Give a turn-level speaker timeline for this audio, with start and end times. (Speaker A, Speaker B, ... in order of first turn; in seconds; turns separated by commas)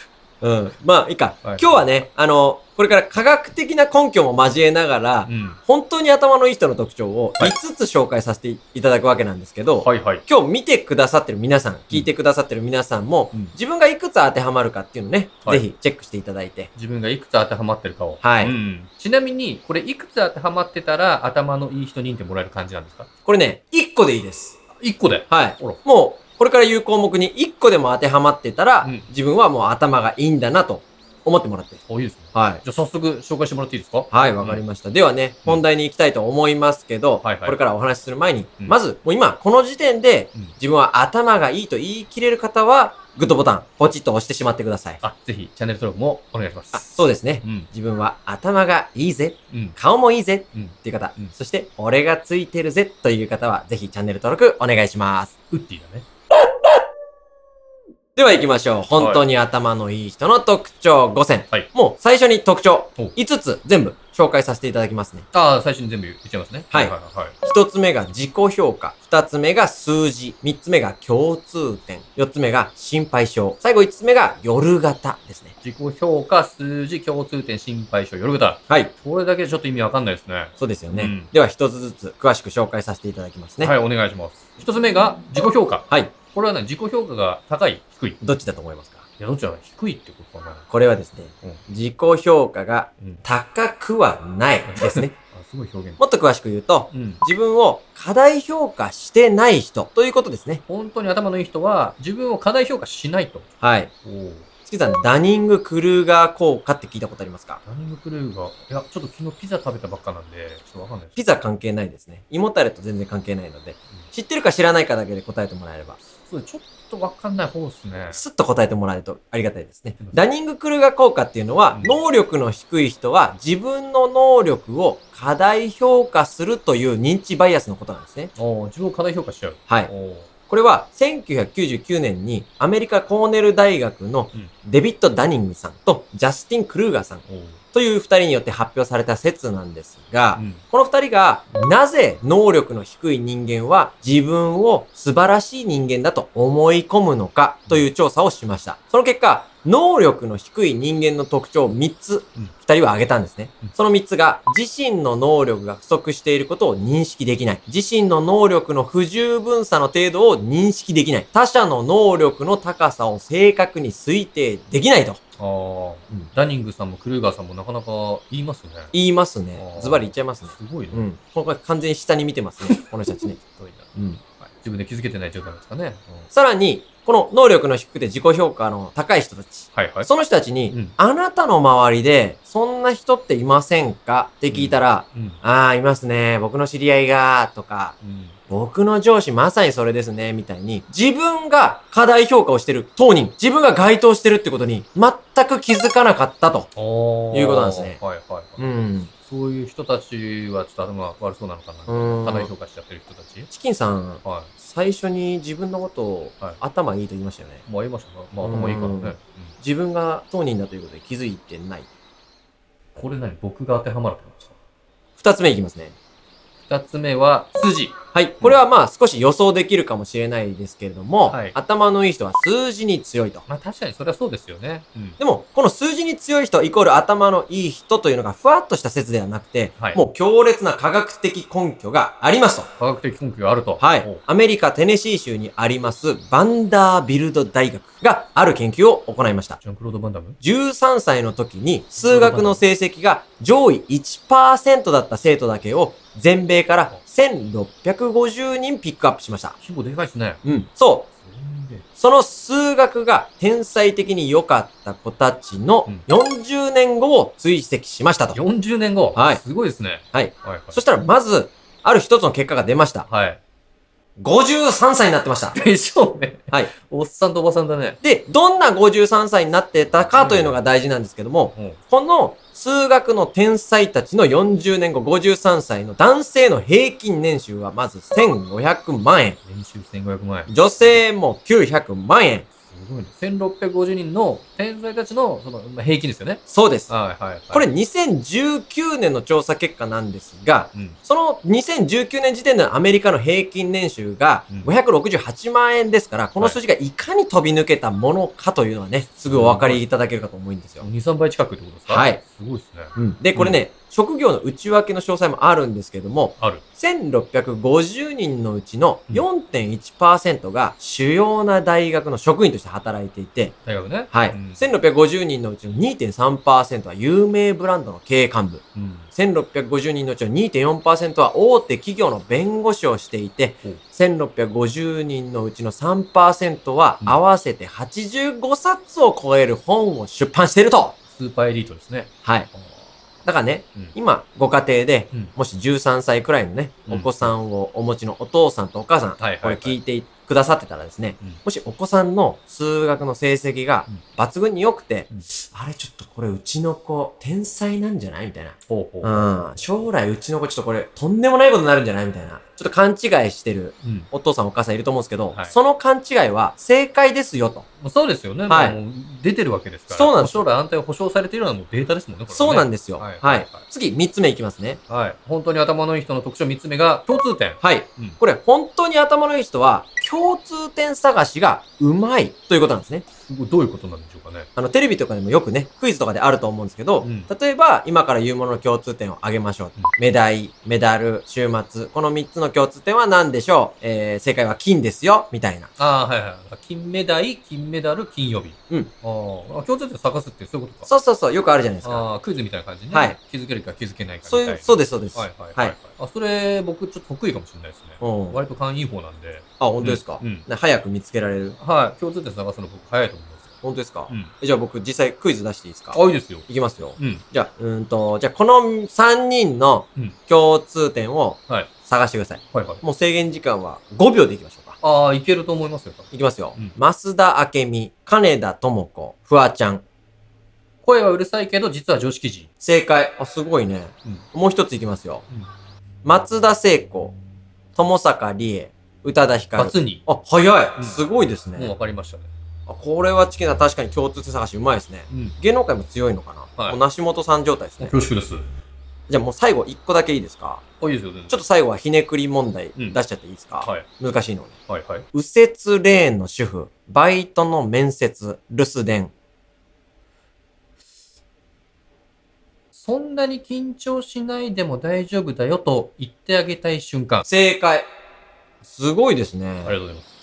Speaker A: 0.4-16.7, Speaker B: 1.4-1.9, Speaker B: 5.3-5.6, Speaker B: 9.8-10.2, Speaker B: 16.8-23.1, Speaker A: 18.2-18.6, Speaker A: 23.3-24.6, Speaker B: 24.8-25.8, Speaker A: 25.3-31.8, Speaker B: 28.8-29.1, Speaker B: 31.9-34.6, Speaker A: 32.3-32.6, Speaker A: 34.1-45.0, Speaker B: 37.2-37.6, Speaker B: 45.0-47.7, Speaker A: 46.7-55.3, Speaker B: 49.5-49.8, Speaker B: 50.5-51.3, Speaker B: 55.5-56.1, Speaker A: 58.2-65.3, Speaker B: 59.0-59.2, Speaker B: 65.3-67.4, Speaker A: 66.7-75.5, Speaker B: 75.6-81.3, Speaker A: 80.6-83.7, Speaker B: 83.6-88.2, Speaker A: 85.9-86.2, Speaker A: 88.2-89.0, Speaker B: 89.2-90.7, Speaker A: 90.7-95.1, Speaker B: 94.7-96.0, Speaker A: 96.0-100.6, Speaker B: 96.9-97.2, Speaker B: 100.7-103.5, Speaker A: 103.6-103.9, Speaker B: 104.0-104.5, Speaker A: 104.7-107.6, Speaker B: 107.7-111.2, Speaker A: 111.2-116.0, Speaker B: 116.2-118.2, Speaker A: 118.1-128.3, Speaker B: 121.7-122.0, Speaker B: 128.4-130.3, Speaker A: 130.5-165.2, Speaker B: 137.3-137.6, Speaker B: 140.3-140.6, Speaker B: 165.4-168.9, Speaker A: 168.9-173.4, Speaker B: 169.6-171.1, Speaker B: 172.6-176.2, Speaker A: 174.0-174.2, Speaker A: 176.3-188.0, Speaker B: 179.7-180.1, Speaker B: 180.7-180.9, Speaker B: 184.5-185.4, Speaker B: 188.0-188.4, Speaker A: 188.5-196.7, Speaker B: 196.8-198.8, Speaker A: 197.3-198.0, Speaker A: 198.6-199.1, Speaker B: 199.3-203.5, Speaker A: 201.9-202.5, Speaker A: 203.5-207.6, Speaker B: 204.2-204.5, Speaker B: 207.7-209.5, Speaker A: 208.4-211.9, Speaker B: 212.9-214.5, Speaker A: 215.2-216.0, Speaker B: 216.7-218.6, Speaker A: 218.1-223.4, Speaker B: 221.3-221.6, Speaker B: 223.5-225.2, Speaker A: 225.2-232.7, Speaker B: 232.8-234.2, Speaker A: 233.8-239.6, Speaker B: 239.6-240.4, Speaker A: 240.4-249.6, Speaker B: 242.0-242.6, Speaker B: 249.6-250.4, Speaker A: 250.4-251.1, Speaker B: 251.2-251.8, Speaker A: 252.0-258.4, Speaker B: 258.3-260.8, Speaker A: 259.1-259.4, Speaker A: 260.1-263.1, Speaker B: 263.1-263.4, Speaker A: 264.2-265.6, Speaker B: 265.5-268.0, Speaker A: 268.0-279.4, Speaker B: 269.8-270.6, Speaker B: 271.5-271.8, Speaker B: 279.4-281.0, Speaker A: 280.5-282.5, Speaker B: 282.6-287.7, Speaker A: 286.5-286.9, Speaker A: 287.5-300.9, Speaker B: 299.2-299.9, Speaker B: 300.8-303.6, Speaker A: 301.9-302.2, Speaker A: 302.9-313.6, Speaker B: 306.4-306.6, Speaker B: 313.6-314.7, Speaker A: 314.1-331.0, Speaker B: 318.8-319.1, Speaker B: 331.1-332.9, Speaker A: 332.2-332.5, Speaker A: 333.2-357.7, Speaker B: 336.9-337.3, Speaker B: 339.2-339.8, Speaker B: 348.7-349.3, Speaker B: 353.8-354.1, Speaker B: 357.8-363.6, Speaker A: 358.5-358.8, Speaker A: 359.9-360.4, Speaker A: 362.3-364.8, Speaker B: 364.9-368.2, Speaker A: 367.6-373.1, Speaker B: 373.3-374.5, Speaker A: 374.6-385.7, Speaker B: 377.0-377.3, Speaker B: 385.8-390.9, Speaker A: 390.9-392.1, Speaker B: 391.8-400.5, Speaker A: 392.9-393.2, Speaker A: 394.3-395.8, Speaker A: 398.0-398.4, Speaker A: 399.6-401.6, Speaker B: 401.6-403.5, Speaker A: 403.6-414.8, Speaker B: 405.9-407.2, Speaker B: 412.5-412.8, Speaker B: 414.8-416.8, Speaker A: 416.1-419.8, Speaker B: 420.8-422.5, Speaker A: 422.6-425.3, Speaker A: 426.0-427.2, Speaker A: 427.8-431.7, Speaker B: 429.6-430.1, Speaker B: 430.8-431.0, Speaker B: 431.6-432.3, Speaker A: 432.7-438.0, Speaker B: 435.1-435.4, Speaker B: 437.8-438.5, Speaker A: 439.1-440.6, Speaker B: 440.8-441.4, Speaker A: 441.3-444.5, Speaker B: 443.6-443.9, Speaker B: 444.7-445.1, Speaker A: 445.1-449.1, Speaker B: 452.7-457.3, Speaker A: 457.3-457.9, Speaker A: 458.6-459.8, Speaker B: 459.6-460.1